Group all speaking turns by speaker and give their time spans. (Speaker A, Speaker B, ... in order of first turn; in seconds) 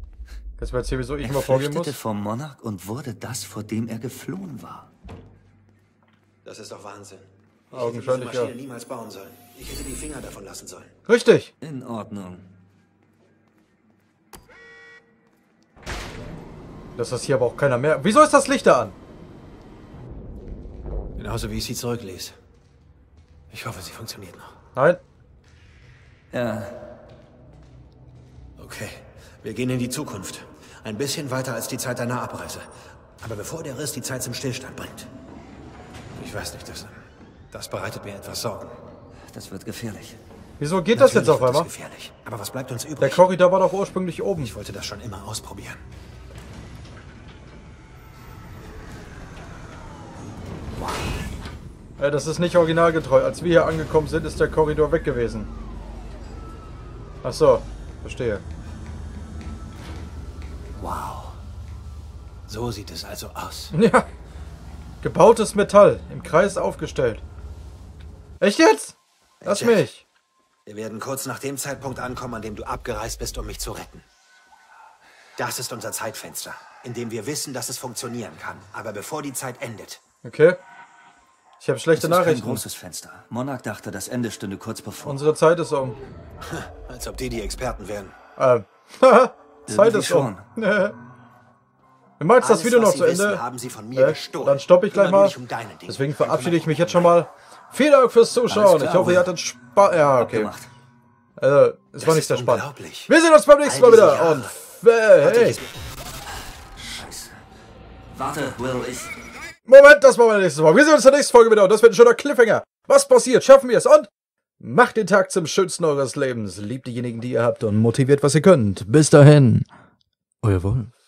Speaker A: 0.6-2.0, 7.7-8.5, 11.1-11.5, 16.9-19.0, 24.8-25.0, 40.6-41.7, 43.0-44.5, 52.0-55.5, 57.2-58.4, 63.7-64.1, 65.0-67.2, 68.4-70.0, 80.2-80.6, 81.6-82.7, 85.0-86.0, 88.4-91.0, 92.2-100.5, 101.4-105.6, 109.7-114.1, 114.6-119.7, 120.4-120.9
Speaker B: 1.2-4.9, 11.6-12.4, 26.3-26.7, 39.3-40.2, 81.9-85.2, 89.7-90.5, 98.5-99.3, 100.2-100.7, 106.8-107.3, 108.1-109.1
Speaker C: 6.5-10.9, 21.2-22.4, 23.5-24.5, 28.6-32.7, 33.2-35.1, 36.2-37.0, 37.5-38.8, 40.9-43.2, 44.4-45.8, 60.8-61.2, 62.5-63.7, 69.4-69.9, 70.7-74.1, 75.4-80.0, 86.4-88.1, 92.4-97.2, 102.0-104.6, 105.2-105.7